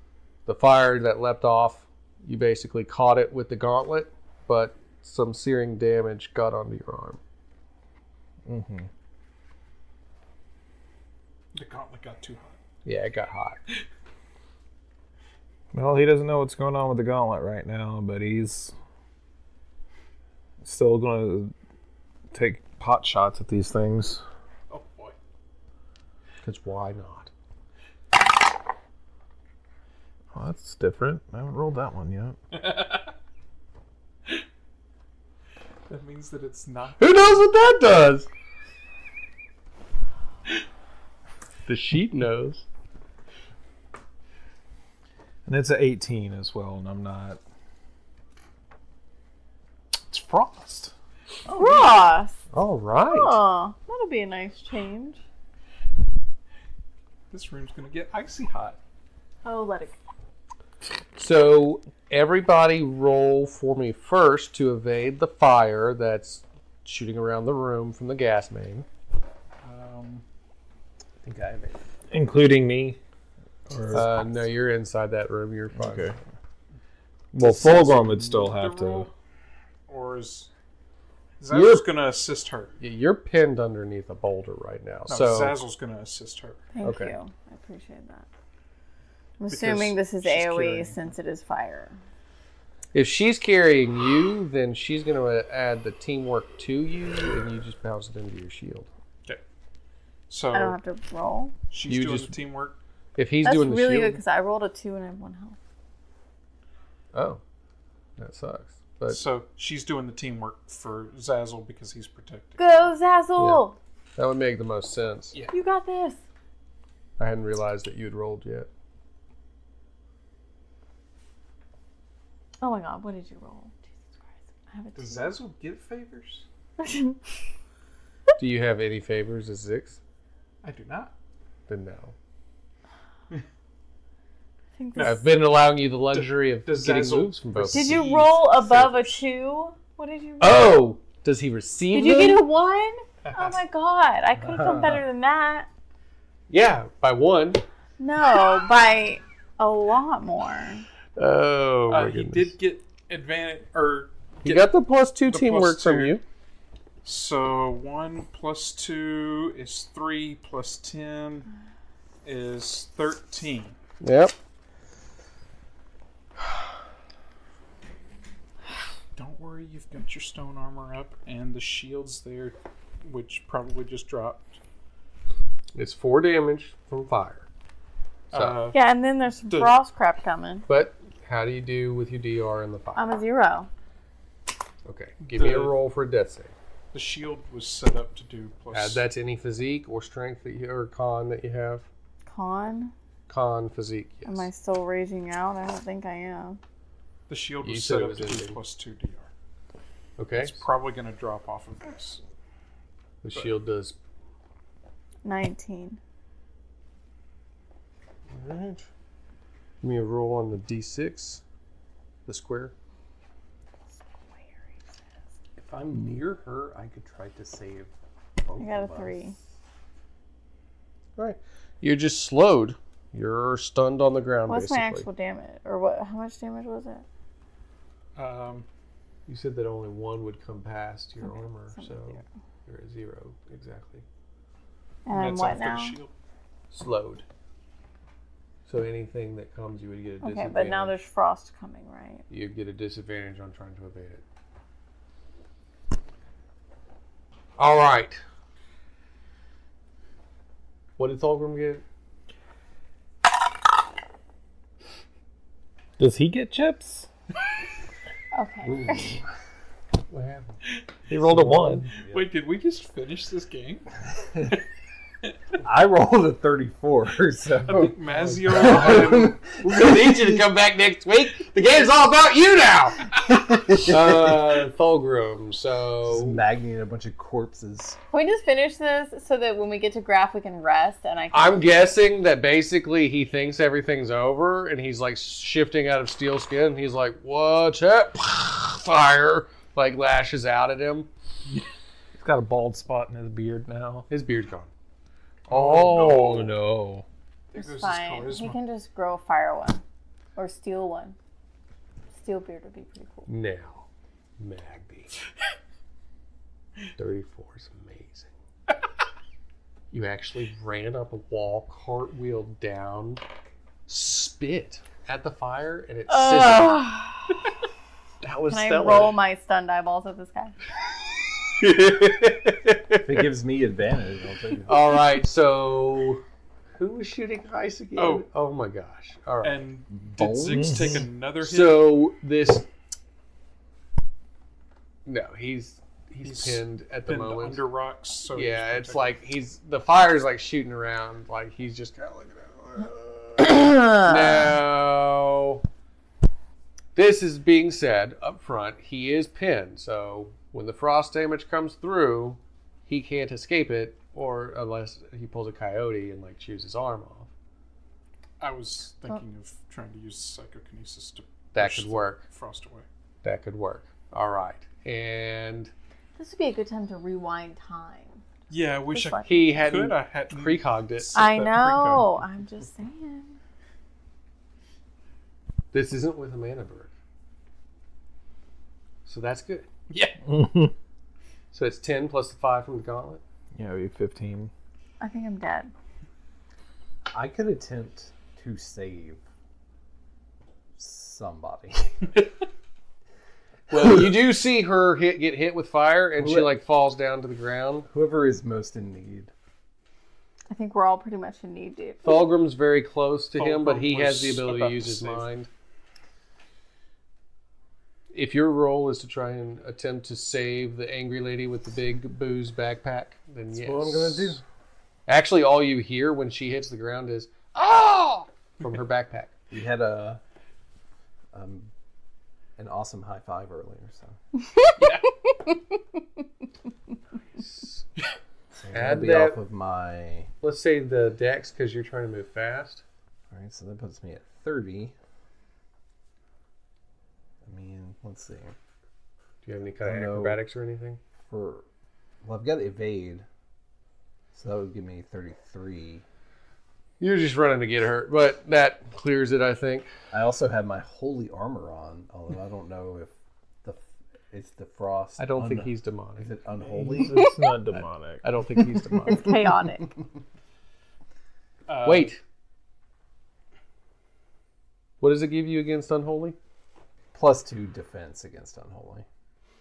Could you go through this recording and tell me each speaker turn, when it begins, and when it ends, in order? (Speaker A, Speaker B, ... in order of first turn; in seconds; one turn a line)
Speaker A: 0.5-7.2
Speaker B: 8.4-8.9
Speaker C: 11.5-12.6
Speaker A: 12.8-13.6
Speaker B: 15.7-18.8
Speaker B: 20.6-21.5
Speaker B: 22.3-24.2
Speaker C: 24.7-25.2
Speaker A: 26.4-27.3
Speaker B: 30.3-32.4
Speaker C: 32.5-33.1
Speaker C: 35.9-37.5
Speaker A: 37.0-38.3
Speaker A: 41.6-42.6
Speaker B: 45.5-47.4
Speaker C: 50.1-50.9
Speaker C: 51.5-52.0
Speaker D: 51.5-52.4
Speaker A: 52.5-53.4
Speaker D: 53.1-55.2
Speaker C: 57.3-58.8
Speaker D: 59.4-60.0
Speaker A: 61.1-68.9
Speaker C: 69.6-70.2
Speaker E: 71.2-71.8
Speaker B: 72.1-73.0
Speaker B: 73.7-74.1
Speaker A: 73.9-76.1
Speaker B: 75.8-76.2
Speaker B: 77.3-79.1
Speaker C: 77.4-79.1
Speaker C: 79.9-80.5
Speaker C: 81.4-82.7
Speaker A: 81.5-81.9
Speaker A: 82.8-85.6
Speaker C: 85.1-86.6
Speaker D: 86.7-88.3
Speaker A: 86.8-87.1
Speaker D: 89.4-92.0
Speaker C: 89.5-91.0
Speaker A: 92.9-98.9
Speaker C: 100.3-100.8
Speaker D: 100.5-101.5
Speaker C: 101.7-102.8
Speaker A: 101.9-102.3
Speaker A: 103.2-104.2
Speaker D: 103.4-105.6
Speaker A: 107.1-107.4
Speaker A: 108.2-109.2
Speaker C: 109.1-112.9
Speaker D: 112.6-113.8
Speaker A: 113.4-113.6
Speaker A: 114.2-115.3
Speaker D: 115.5-116.2
Speaker A: 117.2-118.7
Speaker D: 122.6-125.3
Speaker C: 124.9-126.4
Speaker D: 126.8-127.2
Speaker A: 128.4-130.0
Speaker C: 130.6-131.1
Speaker A: 131.7-132.1
Speaker D: 134.8-135.2
Speaker C: 134.9-135.2
Speaker A: 135.0-139.2
Speaker C: 136.1-138.3
Speaker D: 137.7-140.7
Speaker A: 140.4-142.4
Speaker D: 141.9-145.7
Speaker C: 143.2-143.5
Speaker E: 144.4-145.0
Speaker A: 146.5-147.6
Speaker D: 148.0-150.9
Speaker A: 151.2-152.5
Speaker C: 151.9-154.7
Speaker A: 154.4-156.2
Speaker C: 155.3-156.2
Speaker C: 157.0-161.5
Speaker C: 162.2-163.8
Speaker A: 164.0-164.3
Speaker C: 169.1-174.6
Speaker A: 175.7-177.4
Speaker A: 178.3-178.6
Speaker C: 178.3-178.8
Speaker D: 178.7-180.7
Speaker C: 179.5-179.8
Speaker A: 180.7-183.2
Speaker D: 182.9-183.7
Speaker A: 184.8-186.5
Speaker C: 185.3-185.8
Speaker C: 186.9-189.0
Speaker A: 188.7-191.9
Speaker D: 192.3-192.9
Speaker A: 193.3-194.5
Speaker D: 194.2-196.6
Speaker C: 197.3-199.3
Speaker A: 197.6-198.6
Speaker A: 200.2-200.7
Speaker C: 200.3-202.2
Speaker A: 203.2-203.9
Speaker D: 205.2-206.0
Speaker A: 208.3-208.9
Speaker A: 209.8-211.4
Speaker A: 212.3-212.7
Speaker E: 215.6-219.2
Speaker D: 218.6-219.4
Speaker A: 221.2-225.1
Speaker D: 224.5-227.1
Speaker C: 228.2-228.7
Speaker A: 229.3-234.0
Speaker D: 231.2-232.2
Speaker D: 235.1-236.0
Speaker C: 235.1-236.1
Speaker A: 236.7-237.3
Speaker A: 238.7-241.0
Speaker D: 240.2-242.2
Speaker A: 242.3-244.2
Speaker A: 247.6-248.2
Speaker A: 251.0-251.8
Speaker B: 256.0-257.1
Speaker D: 258.3-259.2
Speaker A: 260.1-260.6
Speaker B: 261.1-261.9
Speaker A: 261.2-261.9
Speaker C: 261.9-264.6
Speaker E: 262.0-262.2
Speaker E: 265.6-267.9
Speaker C: 267.6-269.4
Speaker A: 268.0-276.4
Speaker E: 268.5-270.4
Speaker E: 273.3-274.6
Speaker E: 276.1-278.0
Speaker D: 278.1-281.8
Speaker A: 281.3-291.1
Speaker B: 292.2-294.1
Speaker A: 294.1-294.7
Speaker C: 295.5-296.5
Speaker A: 295.5-296.5
Speaker B: 295.7-297.1
Speaker C: 297.5-298.6
Speaker D: 297.6-299.8
Speaker D: 300.4-301.2
Speaker D: 302.1-303.3
Speaker A: 303.3-303.9
Speaker A: 304.4-305.1
Speaker A: 307.0-308.3
Speaker A: 309.9-313.2
Speaker A: 313.9-316.8
Speaker D: 316.1-317.5
Speaker A: 318.2-319.1
Speaker D: 318.5-320.6
Speaker A: 321.5-323.2
Speaker E: 323.0-324.7
Speaker A: 324.6-326.2
Speaker A: 326.8-329.6
Speaker C: 327.9-328.3
Speaker C: 329.4-331.8
Speaker E: 329.9-331.0
Speaker B: 330.6-331.0
Speaker A: 331.4-332.7
Speaker A: 335.1-337.6
Speaker C: 336.2-339.1
Speaker A: 338.3-345.6
Speaker D: 343.6-344.5
Speaker A: 346.9-357.3
Speaker C: 358.4-362.9
Speaker A: 361.5-362.3
Speaker A: 363.2-365.7
Speaker D: 366.2-368.3
Speaker C: 368.5-372.1
Speaker D: 368.9-369.6
Speaker A: 369.2-371.2
Speaker D: 371.1-373.4
Speaker A: 375.7-376.9
Speaker A: 379.1-379.6
Speaker C: 379.9-380.2
Speaker B: 380.2-380.7
Speaker A: 381.5-383.2
Speaker B: 383.6-384.5
Speaker D: 385.0-385.7
Speaker E: 387.1-389.2
Speaker E: 390.8-392.1
Speaker A: 393.7-397.9
Speaker E: 396.2-396.5
Speaker E: 397.9-399.3
Speaker D: 400.5-402.2
Speaker A: 402.0-405.5
Speaker C: 403.4-405.3
Speaker A: 408.1-414.4
Speaker E: 413.5-414.4
Speaker A: 415.1-419.3
Speaker E: 419.5-420.2
Speaker E: 421.3-421.7
Speaker E: 422.6-424.2
Speaker C: 424.8-425.1
Speaker A: 427.4-427.9
Speaker E: 428.5-430.3
Speaker A: 428.7-429.4
Speaker A: 430.4-432.8
Speaker E: 433.3-434.9
Speaker E: 437.4-438.6
Speaker A: 439.4-441.0
Speaker E: 439.8-440.4
Speaker E: 441.3-441.6
Speaker E: 442.2-443.3
Speaker E: 444.3-446.1
Speaker A: 447.0-449.9
Speaker E: 450.1-453.1
Speaker E: 453.6-457.3
Speaker A: 455.2-456.3
Speaker B: 456.7-458.4
Speaker A: 457.7-459.4
Speaker D: 459.1-459.9
Speaker C: 461.7-462.1
Speaker A: 461.8-462.2
Speaker A: 465.0-466.4
Speaker E: 467.1-469.1